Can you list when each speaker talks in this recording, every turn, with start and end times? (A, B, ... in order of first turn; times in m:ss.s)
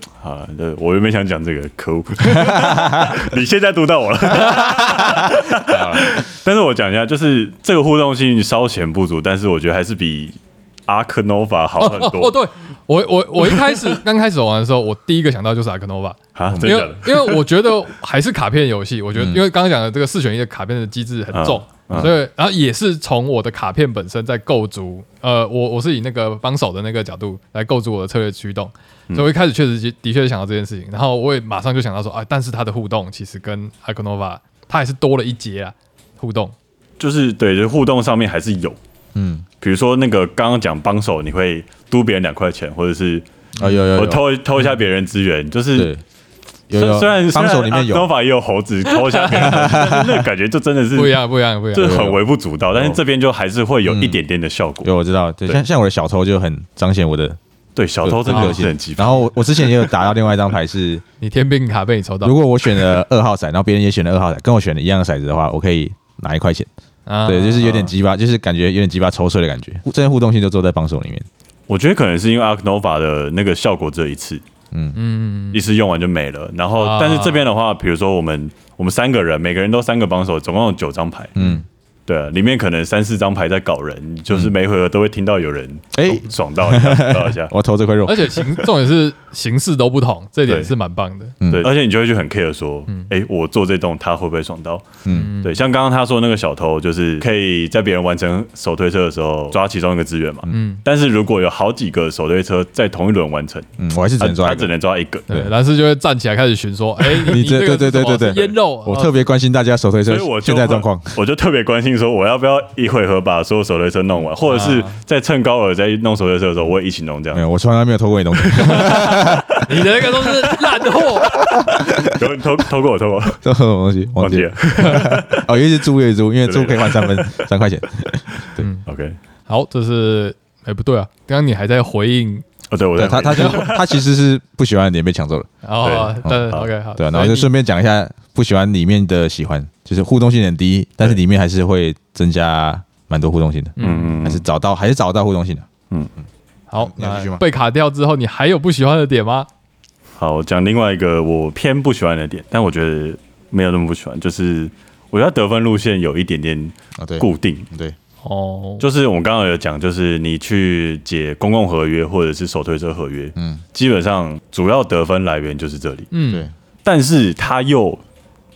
0:00.2-0:12.4 A
0:02.4-0:03.2 B
0:04.3-0:05.2 C
0:05.7-0:06.2 B
0:11.8-0:36.5 C
0:13.5-0:14.0 A
0:16.4-0:17.4 A
0:19.2-0:19.4 B
0:21.3-0:22.2 A
0:37.0-0:38.8 A
0:39.2-0:39.4 B
0:39.6-0:43.3 A
0:43.6-0:43.9 C
0:43.6-0:44.2 B
0:44.0-0:45.9 A
0:45.8-0:46.0 B
0:46.7-0:48.1 B
0:46.7-0:51.2 A
0:49.0-0:49.5 C
0:49.3-0:50.3 B
0:51.0-0:52.0 C
0:51.7-0:54.9 A
0:51.8-0:52.2 B
0:52.7-0:53.0 B
0:53.9-0:54.2 B
0:54.8-0:57.4 B
0:57.8-0:59.9 A
0:58.0-1:01.0 B
0:58.3-0:58.6 C
1:01.2-1:02.4 C
1:02.2-1:06.7 B
1:07.1-1:07.9 C
1:07.3-1:11.3 B
1:11.7-1:14.4 A
1:14.7-1:15.0 B
1:15.0-1:15.6 C
1:15.5-1:21.4 A
1:16.8-1:17.5 C
1:21.4-1:21.6 B
1:21.4-1:21.6 C
1:22.1-1:27.5 A
1:25.9-1:28.7 B
1:28.1-1:31.6 C
1:30.5-1:30.7 A
1:31.4-1:31.7 B
1:31.5-1:45.3 A
1:35.0-1:35.3 B
1:35.1-1:35.6 C
1:40.5-1:40.8 C
1:43.8-1:44.7 B
1:45.3-1:49.1 C
1:47.2-1:51.2 B
1:50.1-1:57.4 A
1:54.5-1:55.0 C
1:57.3-1:59.8 B
1:58.6-2:01.4 C
2:01.5-2:02.1 B
2:01.8-2:03.4 A
2:03.4-2:08.7 B
2:04.2-2:05.4 A
2:06.4-2:07.4 A
2:08.6-2:08.8 C
2:08.9-2:09.2 A
2:09.5-2:12.4 C
2:12.7-2:14.0 A
2:13.0-2:15.5 B
2:13.4-2:13.6 C
2:15.6-2:17.5 C
2:15.8-2:16.7 A
2:16.1-2:25.7 B
2:23.8-2:24.3 C
2:23.8-2:24.4 A
2:26.7-2:29.5 C
2:26.8-2:27.4 B
2:30.2-2:37.7 A
2:37.0-2:38.0 B
2:38.2-2:38.8 C
2:38.8-2:46.1 A
2:43.4-2:43.6 B
2:46.1-2:46.5 C
2:46.8-2:48.0 A